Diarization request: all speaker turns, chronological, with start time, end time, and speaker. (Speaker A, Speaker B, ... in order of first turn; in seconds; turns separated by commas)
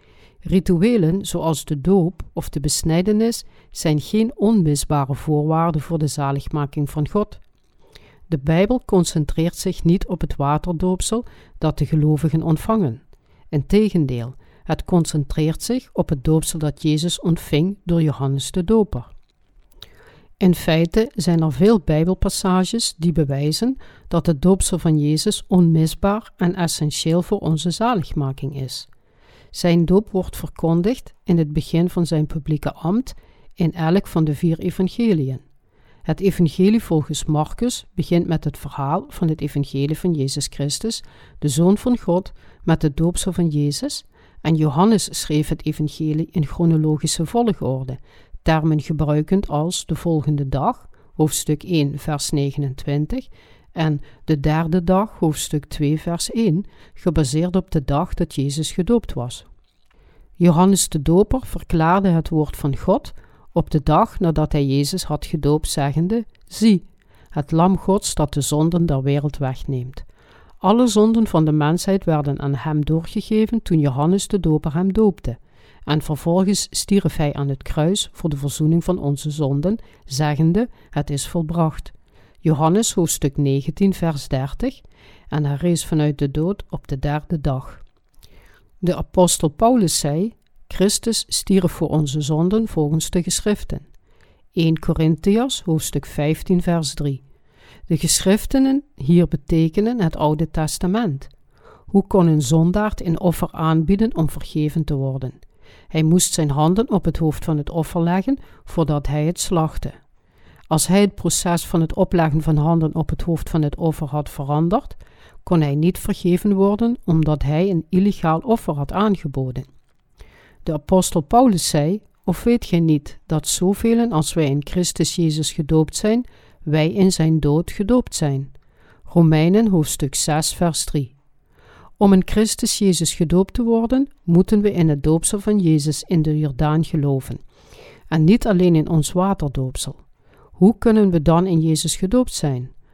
Speaker A: 0.4-7.4, Speaker A: 8.3-19.1, Speaker A: 20.4-28.9, Speaker A: 29.5-35.4, Speaker A: 36.1-59.5, Speaker A: 60.4-70.1, Speaker A: 70.6-87.8, Speaker A: 88.8-93.8, Speaker A: 94.5-97.2, Speaker A: 97.9-101.3, Speaker A: 101.9-105.4, Speaker A: 105.9-110.0, Speaker A: 110.7-119.7, Speaker A: 120.7-128.5, Speaker A: 129.1-131.2, Speaker A: 132.0-137.4, Speaker A: 138.1-140.0, Speaker A: 140.6-142.7